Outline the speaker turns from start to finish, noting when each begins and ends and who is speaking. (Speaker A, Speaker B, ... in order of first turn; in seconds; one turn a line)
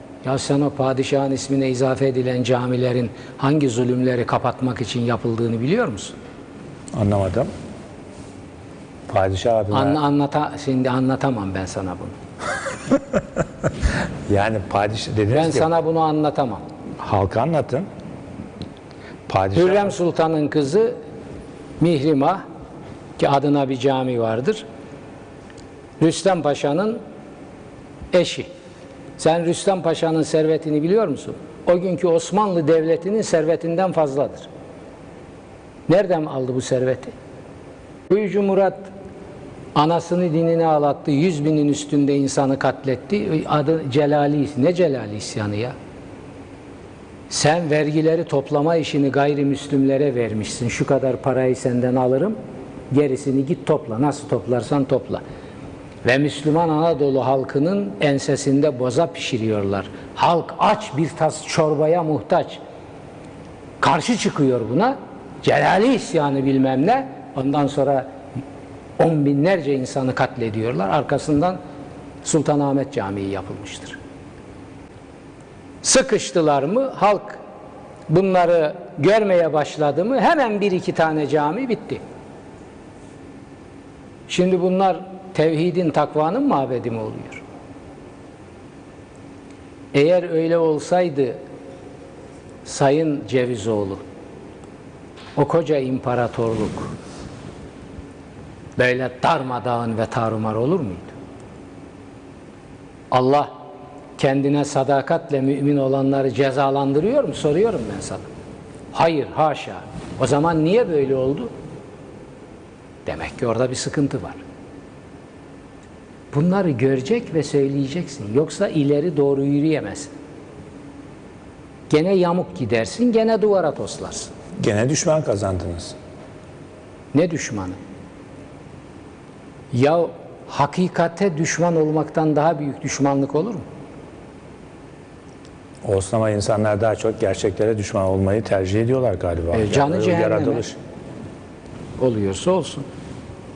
Speaker A: 0.2-6.2
Speaker B: 6.9-7.5
Speaker B: 9.1-10.0
Speaker A: 9.7-12.2
Speaker B: 14.3-15.7
Speaker A: 15.3-16.6
Speaker B: 17.0-17.9
Speaker B: 19.3-19.9
Speaker A: 19.6-20.9
Speaker A: 21.8-22.4
Speaker A: 23.2-24.6
Speaker A: 26.0-27.0
Speaker A: 28.1-28.5
Speaker A: 29.2-34.5
Speaker A: 35.9-37.1
Speaker A: 38.1-38.9
Speaker A: 39.8-45.8
Speaker A: 47.3-52.4
Speaker A: 52.9-55.2
Speaker A: 56.0-62.6
Speaker A: 63.8-68.1
Speaker A: 69.0-71.6
Speaker A: 72.2-74.0
Speaker A: 75.8-77.4
Speaker A: 78.1-82.0
Speaker A: 84.3-87.4
Speaker A: 89.9-91.4
Speaker A: 92.7-94.0
Speaker A: 95.4-96.9
Speaker A: 98.8-101.1
Speaker A: 103.1-103.5
Speaker A: 104.2-108.3
Speaker A: 108.9-111.5
Speaker A: 113.1-114.4
Speaker A: 116.3-120.1
Speaker A: 121.9-124.3
Speaker B: 124.6-126.0
Speaker A: 127.1-127.8
Speaker A: 129.7-133.7
Speaker B: 135.8-140.8
Speaker A: 139.5-140.7
Speaker A: 142.0-142.9